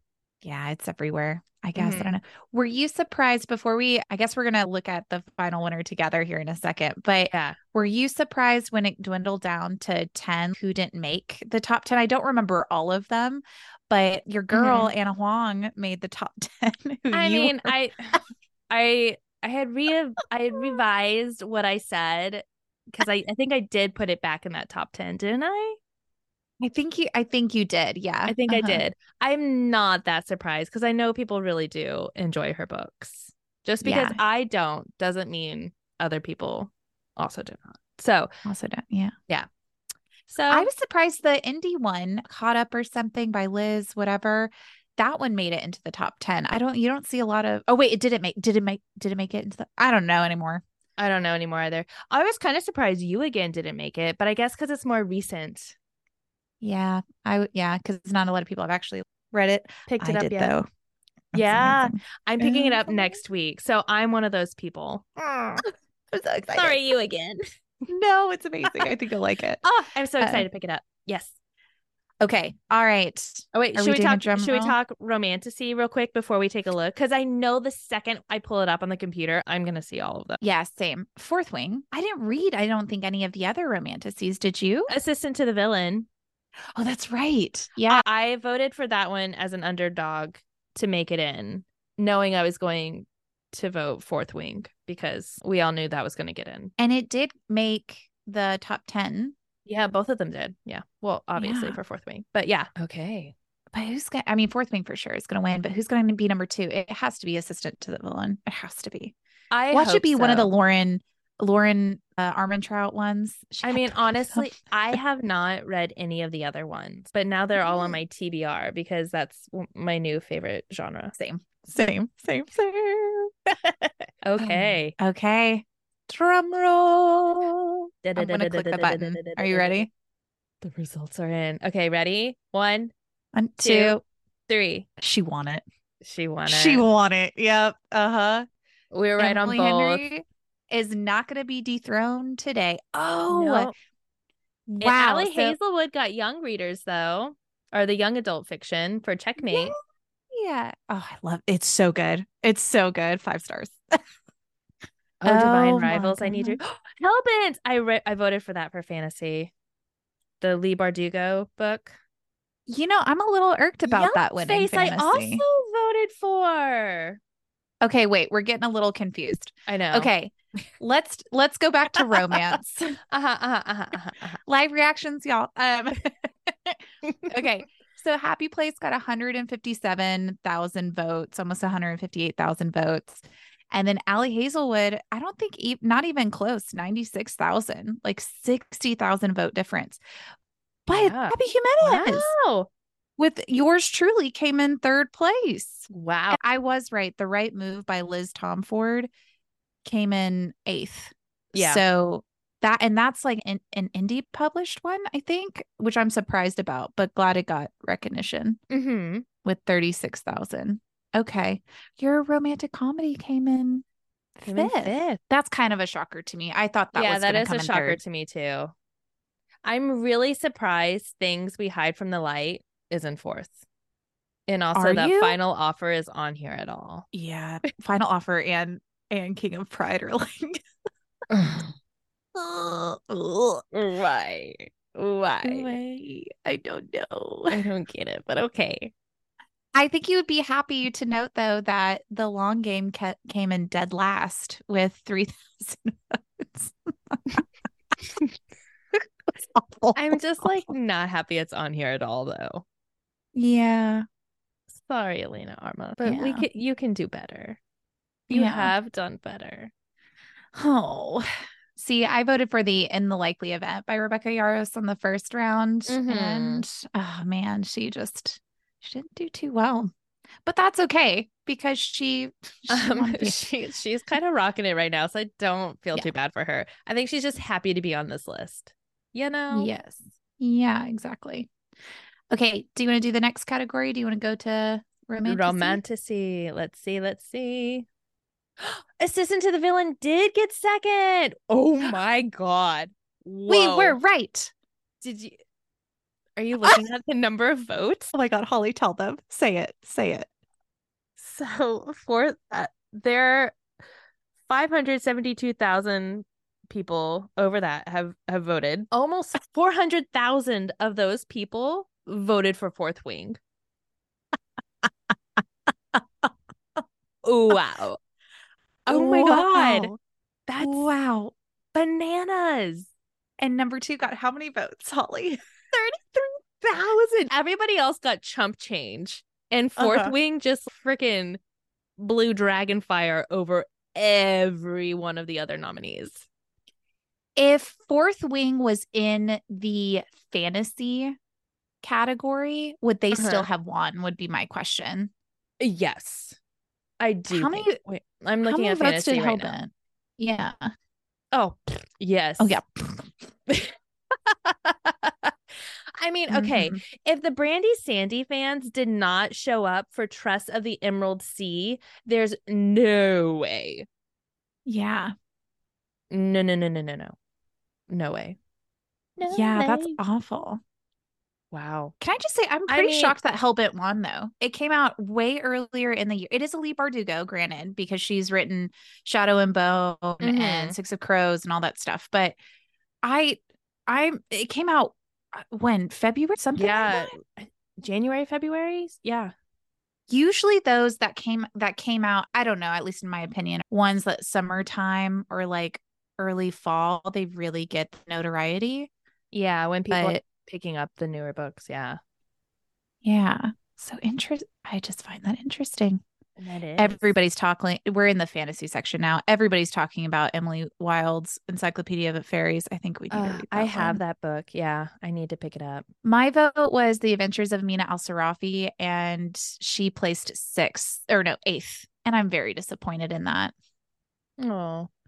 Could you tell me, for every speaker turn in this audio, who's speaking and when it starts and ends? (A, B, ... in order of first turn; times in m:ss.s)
0:00.4-0:17.7 A
0:01.8-0:02.2 B
0:07.3-0:07.6 B
0:14.5-0:14.9 B
0:17.1-0:25.8 B
0:26.6-0:28.8 A
0:28.3-0:38.3 B
0:33.8-0:34.2 A
0:38.4-0:39.1 A
0:40.3-0:40.7 B
0:40.5-0:50.6 A
0:51.0-0:55.8 B
0:56.6-1:00.6 A
0:59.9-1:00.6 B
1:01.3-1:03.2 A
1:01.3-1:05.6 B
1:06.1-1:06.8 A
1:06.5-1:07.4 B
1:07.9-1:09.6 A
1:09.6-1:11.3 B
1:10.2-1:10.4 A
1:12.2-1:14.8 A
1:13.5-1:20.4 B
1:20.4-1:24.9 A
1:24.9-1:26.1 B
1:26.8-1:28.0 A
1:27.8-1:36.7 B
1:36.8-1:39.3 A
1:39.6-1:43.3 B
1:41.4-1:41.8 A
1:43.7-1:49.1 A
1:49.5-1:50.5 B
1:49.7-1:54.5 A
1:53.6-2:01.1 B
1:57.6-1:58.0 A
2:01.2-2:03.3 A
2:03.6-2:04.9 B
2:04.4-2:09.9 A
2:08.0-2:09.9 B
2:10.6-2:12.9 B
2:13.3-2:14.0 A
2:13.6-2:14.9 B
2:15.0-2:15.6 A
2:16.0-2:16.8 B
2:16.5-2:18.4 A
2:18.9-2:20.0 B
2:19.2-2:23.7 A
2:23.3-2:23.7 B
2:24.7-2:25.6 A
2:24.8-2:29.7 B
2:29.4-2:29.8 A
2:30.3-2:33.8 A
2:35.2-2:39.5 B
2:35.2-2:36.6 A
2:40.4-2:42.0 B
2:42.7-2:45.4 A
2:43.9-2:47.2 B
2:47.8-2:53.0 A
2:49.7-2:50.1 B
2:53.1-2:54.4 B
2:54.4-3:10.0 A
2:57.0-2:57.3 B
3:10.9-3:12.3 A
3:10.9-3:12.7 B
3:13.2-3:19.1 A
3:15.9-3:16.4 B
3:19.8-3:28.6 A
3:21.5-3:21.8 B
3:28.7-3:29.2 B
3:29.4-3:33.8 A
3:34.4-3:38.0 A
3:34.5-3:35.2 B
3:36.9-3:38.7 B
3:39.6-3:43.5 B
3:44.5-3:47.0 B
3:44.7-3:45.4 A
3:47.1-3:50.6 A
3:51.3-3:51.7 B
3:52.4-3:53.6 A
3:53.7-3:55.8 B
3:55.0-3:57.6 A
3:57.5-3:58.9 B
3:59.7-4:07.2 A
4:09.5-4:10.6 A
4:09.9-4:12.6 B
4:13.3-4:14.0 A
4:14.7-4:17.6 B
4:16.0-4:16.4 A
4:18.3-4:19.7 B
4:18.3-4:18.7 A
4:20.5-4:29.9 A
4:25.9-4:26.6 B
4:30.4-4:33.4 A
4:32.7-4:39.7 B
4:39.5-4:41.5 A
4:42.3-4:45.8 A
4:45.2-4:47.9 B
4:48.6-4:54.0 B
4:53.5-4:54.5 A
4:55.0-4:55.4 B
4:56.4-4:58.1 B
4:58.1-5:00.3 A
5:01.2-5:03.6 B
5:04.5-5:13.4 B
5:15.9-5:16.3 A
5:17.2-5:18.0 B
5:18.9-5:20.0 B
5:18.9-5:19.9 A
5:20.5-5:20.9 B
5:20.6-5:21.3 A
5:21.7-5:22.9 B
5:23.4-5:26.3 A
5:26.6-5:31.4 B
5:29.8-5:30.1 A
5:32.0-5:36.3 B
5:37.4-5:41.2 A
5:41.8-5:45.1 A
5:43.1-5:43.5 B
5:45.6-5:46.4 B
5:47.0-5:49.5 B
5:47.3-5:47.8 A
5:48.4-5:50.7 A
5:51.3-5:52.6 B
5:52.4-5:53.2 A
5:53.5-5:53.7 B
5:54.2-5:55.3 B
5:56.0-6:03.8 B
5:56.3-5:56.8 A
6:04.6-6:05.1 A
6:06.1-6:07.1 B
6:07.9-6:08.4 B
6:09.2-6:10.0 B
6:09.3-6:10.6 A
6:11.5-6:11.9 B
6:12.0-6:22.4 A
6:12.7-6:13.2 B
6:20.2-6:20.8 B
6:23.0-6:27.1 A
6:26.6-6:29.3 B
6:30.1-6:38.9 A
6:39.3-6:42.0 B
6:39.9-6:40.2 A
6:43.0-6:46.0 A
6:46.4-6:47.2 B
6:46.8-6:54.0 A
6:53.1-6:55.8 B
6:56.0-7:03.5 A
7:04.4-7:04.9 B